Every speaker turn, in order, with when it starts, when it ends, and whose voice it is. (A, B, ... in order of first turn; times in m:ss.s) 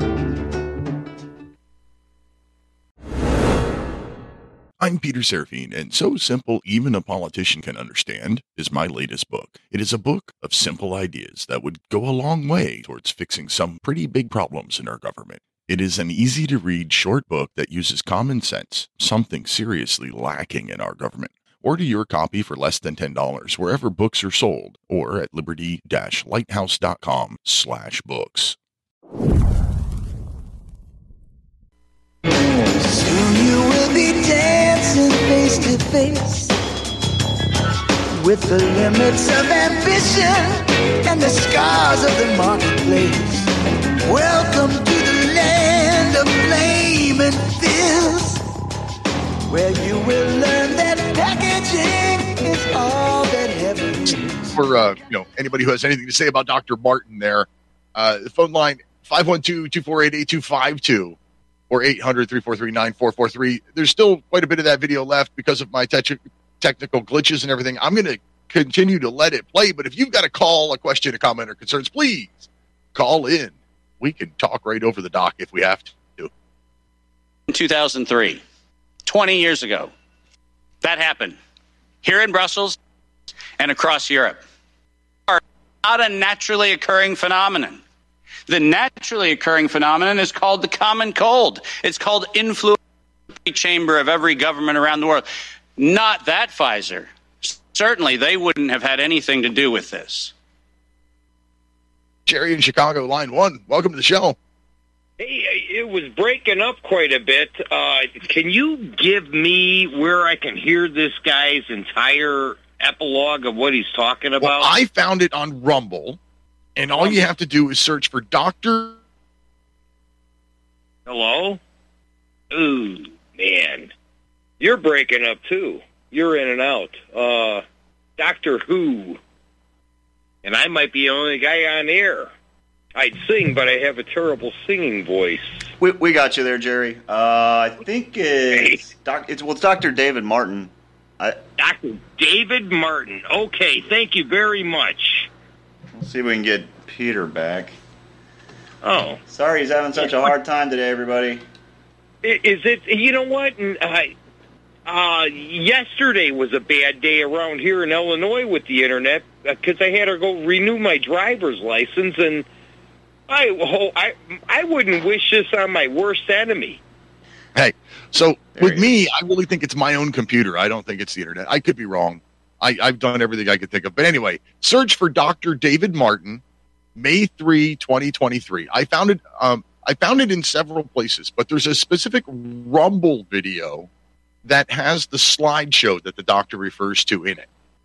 0:04.8-0:28.6 A
0:32.2-0:36.5 B
0:38.2-0:43.5 B
0:44.0-0:48.4 B
0:49.5-0:54.6 B
0:54.5-1:01.2 C
1:01.7-1:16.3 C
1:17.5-1:18.4 D
1:19.0-1:19.9 D
1:20.8-1:21.4 D
1:22.0-1:22.8 D
1:23.6-1:24.4 D
1:25.3-1:27.8 D
1:28.5-1:32.8 D
1:33.3-1:35.2 D
1:35.8-1:40.3 D
1:42.2-1:44.4 C
1:45.2-1:54.7 E
1:54.4-1:56.2 C
1:56.8-1:59.0 C
1:57.0-1:57.2 E
2:01.0-2:01.6 E
2:02.5-2:03.9 E
2:04.6-2:07.6 E
2:08.2-2:09.2 E
2:10.4-2:12.3 E
2:12.9-2:15.6 E
2:15.8-2:21.4 F
2:18.5-2:18.8 E
2:21.6-2:25.3 E
2:26.0-2:27.8 F
2:28.8-2:29.2 E
2:29.2-2:31.4 F
2:29.9-2:30.3 E
2:32.2-2:34.1 E
2:34.8-2:42.5 E
2:43.3-2:46.8 E
2:47.5-2:56.4 C
2:57.0-3:03.9 C
3:04.4-3:07.5 C